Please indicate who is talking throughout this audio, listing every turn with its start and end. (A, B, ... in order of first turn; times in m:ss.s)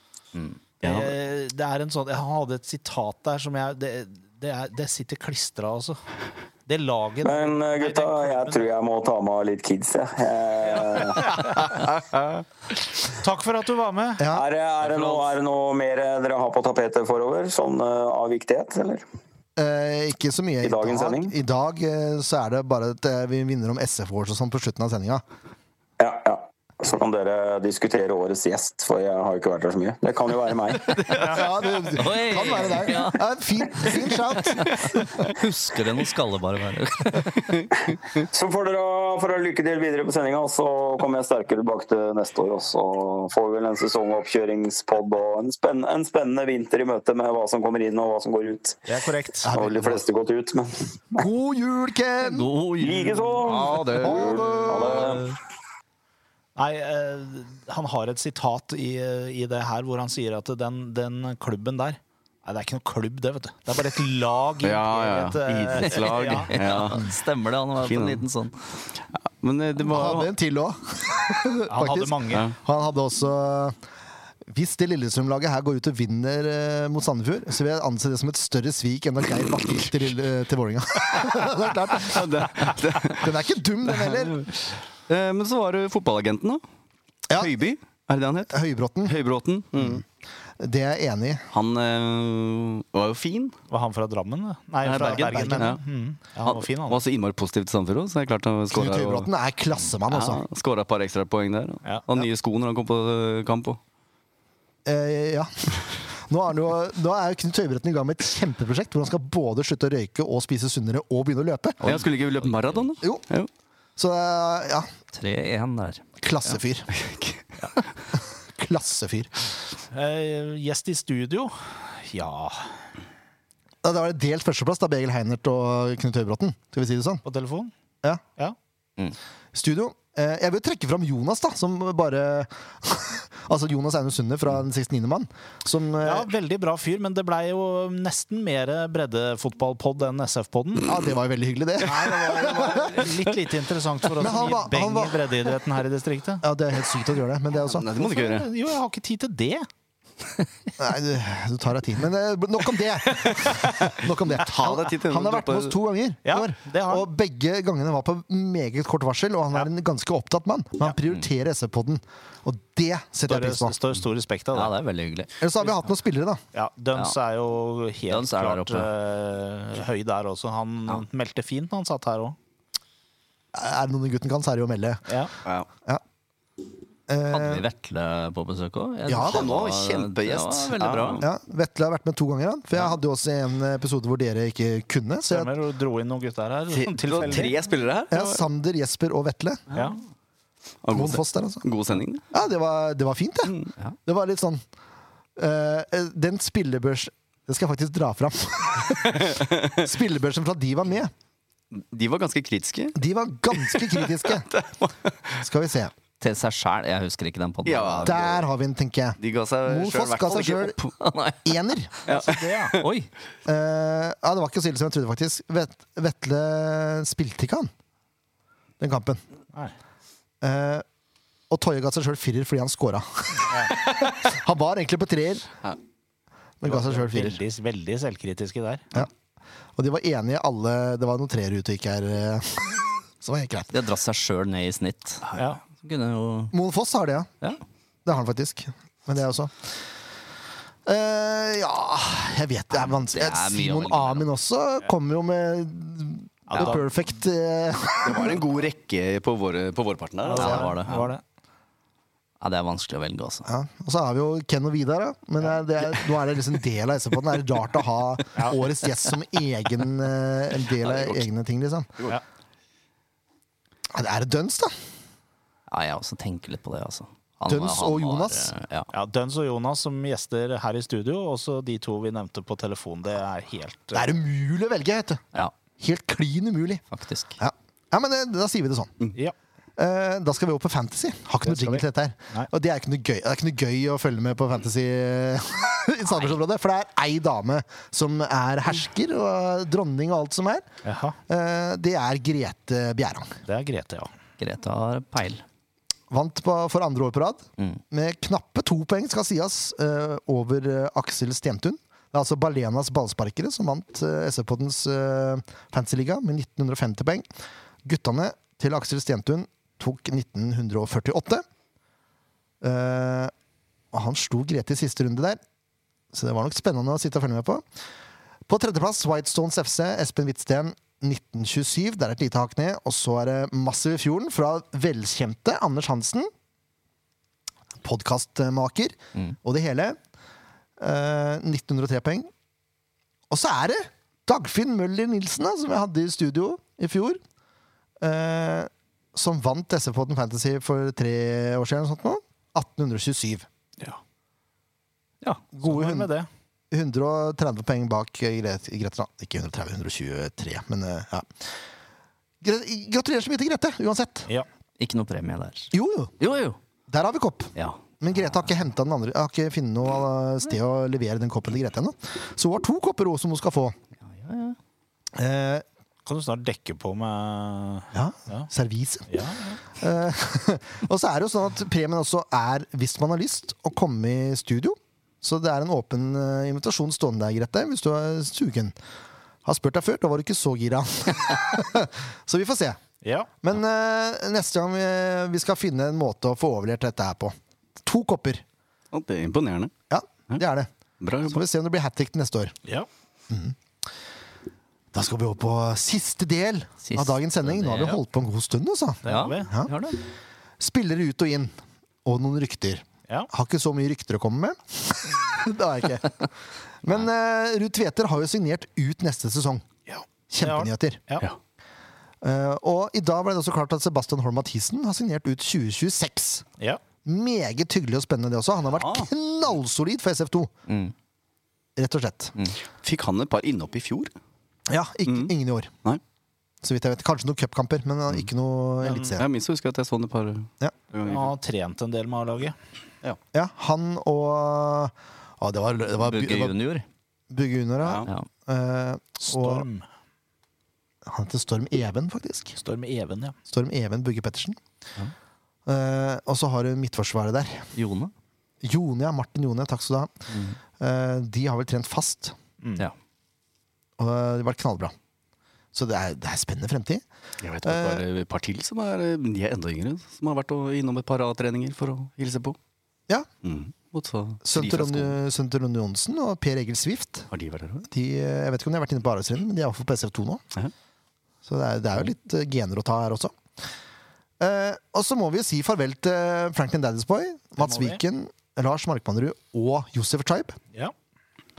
0:00.8-0:06.0 A
0:00.8-0:01.1 B
0:06.7-0:08.7 A
0:07.2-0:11.4 C
0:10.8-0:11.5 A
0:11.3-0:12.4 B
0:13.0-0:14.2 A
0:14.2-0:14.4 D
0:14.3-0:19.0 C
0:14.8-0:15.3 B
0:19.6-0:25.2 D
0:20.6-0:21.3 C
0:26.0-0:30.9 C
0:30.9-0:31.2 B
0:31.2-0:31.4 A
0:31.2-0:35.1 D
0:31.9-0:33.2 E
0:33.8-0:37.6 E
0:38.1-0:48.8 C
0:48.9-0:49.5 A
0:49.4-0:50.0 D
0:49.4-0:51.2 C
0:51.2-0:52.5 D
0:52.2-0:54.3 E
0:52.8-0:55.4 C
0:53.5-0:54.7 B
0:54.0-0:55.2 D
0:56.6-1:06.6 A
1:04.6-1:07.1 B
1:05.8-1:08.5 E
1:07.8-1:08.2 B
1:09.2-1:10.3 B
1:09.8-1:13.8 D
1:11.7-1:12.5 A
1:14.5-1:24.5 D
1:22.0-1:23.3 B
1:23.9-1:26.6 B
1:27.3-1:27.6 D
1:27.3-1:30.0 B
1:28.5-1:29.2 D
1:30.6-1:31.5 D
1:31.5-1:33.5 B
1:33.7-1:37.0 A
1:34.8-1:35.8 B
1:34.9-1:35.7 D
1:36.4-1:39.3 B
1:38.7-1:40.4 D
1:40.1-1:43.8 B
1:44.8-1:52.0 D
1:51.8-1:53.5 B
1:51.9-1:52.8 E
1:54.0-1:54.9 D
1:55.1-1:56.6 E
1:56.2-1:56.9 D
1:56.9-1:57.4 B
1:58.1-1:59.3 D
1:59.9-2:02.7 A
2:03.8-2:07.2 D
2:07.2-2:07.7 A
2:09.5-2:16.3 D
2:16.0-2:21.0 A
2:20.8-2:23.0 D
2:21.8-2:26.4 A
2:24.2-2:25.3 D
2:26.4-2:27.9 D
2:27.6-2:28.5 B
2:27.9-2:29.7 A
2:30.8-2:43.8 D
2:34.3-2:35.7 B
2:36.2-2:37.1 A
2:43.3-2:44.7 A
2:44.5-2:45.3 E
2:45.4-2:46.4 D
2:46.5-2:52.4 A
2:48.1-2:48.9 E
2:53.5-2:55.0 D
2:55.1-2:55.3 A
2:57.1-2:57.6 D
2:57.3-3:01.2 E
2:59.1-2:59.6 D
2:59.2-3:01.2 B
3:01.2-3:05.6 D
3:05.3-3:07.6 A
3:06.7-3:08.4 B
3:08.1-3:09.6 D
3:10.8-3:12.2 B
3:10.9-3:11.6 D
3:12.3-3:14.6 D
3:15.4-3:21.1 D
3:19.0-3:19.8 B
3:21.7-3:23.0 B
3:22.9-3:24.5 D
3:23.5-3:25.4 B
3:25.4-3:25.9 D
3:26.2-3:28.2 E
3:27.6-3:28.4 B
3:28.0-3:30.8 D
3:29.2-3:30.9 B
3:31.0-3:31.5 E
3:31.4-3:31.9 D
3:32.0-3:32.9 B
3:32.1-3:32.8 A
3:32.8-3:33.1 E
3:33.4-3:37.7 D
3:38.8-3:39.2 D
3:40.4-3:40.8 D
3:41.5-3:45.5 D
3:43.5-3:43.8 A
3:46.6-3:47.4 D
3:46.6-3:49.0 A
3:49.8-3:53.7 D
3:53.7-3:56.5 E
3:56.5-3:57.3 D
3:58.0-3:59.7 D
4:00.8-4:08.4 D
4:02.7-4:04.3 E
4:06.5-4:06.8 A
4:08.0-4:11.1 B
4:10.2-4:11.2 A
4:10.3-4:11.0 E
4:12.4-4:13.5 E
4:13.5-4:22.0 D
4:20.8-4:21.2 B
4:23.9-4:24.7 D
4:25.7-4:28.9 E
4:27.4-4:28.5 D
4:28.9-4:34.1 A
4:33.9-4:36.8 D
4:36.9-4:37.4 E
4:37.4-4:39.0 D
4:39.8-4:50.7 D
4:41.4-4:42.5 A
4:46.0-4:46.4 E
4:50.8-4:51.2 A
4:51.3-4:53.4 D
4:53.4-4:54.1 A
4:54.4-4:55.4 E
4:56.1-5:07.3 D
5:07.8-5:11.4 D
5:12.6-5:13.3 D
5:13.9-5:15.4 D
5:16.1-5:17.6 D
5:18.5-5:26.3 D
5:27.8-5:30.0 D
5:30.8-5:32.3 D
5:33.3-5:37.2 D
5:38.0-5:43.5 D
5:45.2-5:46.3 A
5:45.5-5:46.1 D
5:46.7-5:51.4 D
5:52.4-5:54.3 D
5:54.8-5:56.6 E
5:55.7-5:56.1 D
5:56.9-6:03.8 D
5:57.5-5:57.8 E
6:04.0-6:04.6 E
6:05.1-6:05.6 D
6:06.0-6:08.5 A
6:07.9-6:09.1 D
6:09.1-6:09.6 A
6:09.8-6:18.7 D
6:19.4-6:22.8 D
6:23.0-6:23.3 A
6:23.4-6:28.4 D
6:28.9-6:29.7 B
6:29.9-6:30.7 D
6:31.0-6:31.4 B
6:31.3-6:32.6 D
6:33.3-6:33.6 D
6:34.9-6:39.7 D
6:36.8-6:38.0 E
6:39.0-6:39.5 A
6:39.0-6:40.0 E
6:40.6-6:41.5 D
6:42.0-6:46.2 D
6:46.8-6:49.6 D
6:49.9-6:51.3 A
6:50.3-6:51.0 D
6:52.2-6:56.4 D
6:57.0-7:00.5 D
6:58.7-6:59.1 B
7:00.7-7:00.9 E
7:01.8-7:02.3 D
7:02.7-7:04.1 B
7:04.7-7:05.7 D
7:05.1-7:05.3 B
7:06.6-7:09.2 D
7:09.1-7:11.3 B
7:11.0-7:12.6 A
7:13.3-7:16.5 D
7:16.0-7:16.8 E
7:17.3-7:19.6 D
7:17.8-7:18.1 B
7:19.2-7:19.8 A
7:21.0-7:22.6 D
7:22.6-7:23.4 A
7:23.5-7:24.6 D
7:25.7-7:27.7 D
7:27.7-7:28.1 E
7:28.6-7:30.1 D
7:30.3-7:30.6 E
7:30.8-7:32.4 D
7:34.0-7:34.9 D
7:35.7-7:37.0 D
7:37.4-7:42.6 B
7:37.6-7:38.0 D
7:43.4-7:45.2 B
7:44.4-7:47.3 D
7:47.3-7:47.9 B
7:47.9-7:50.4 D
7:51.4-7:53.4 D
7:54.4-8:00.6 D
7:57.6-7:58.0 A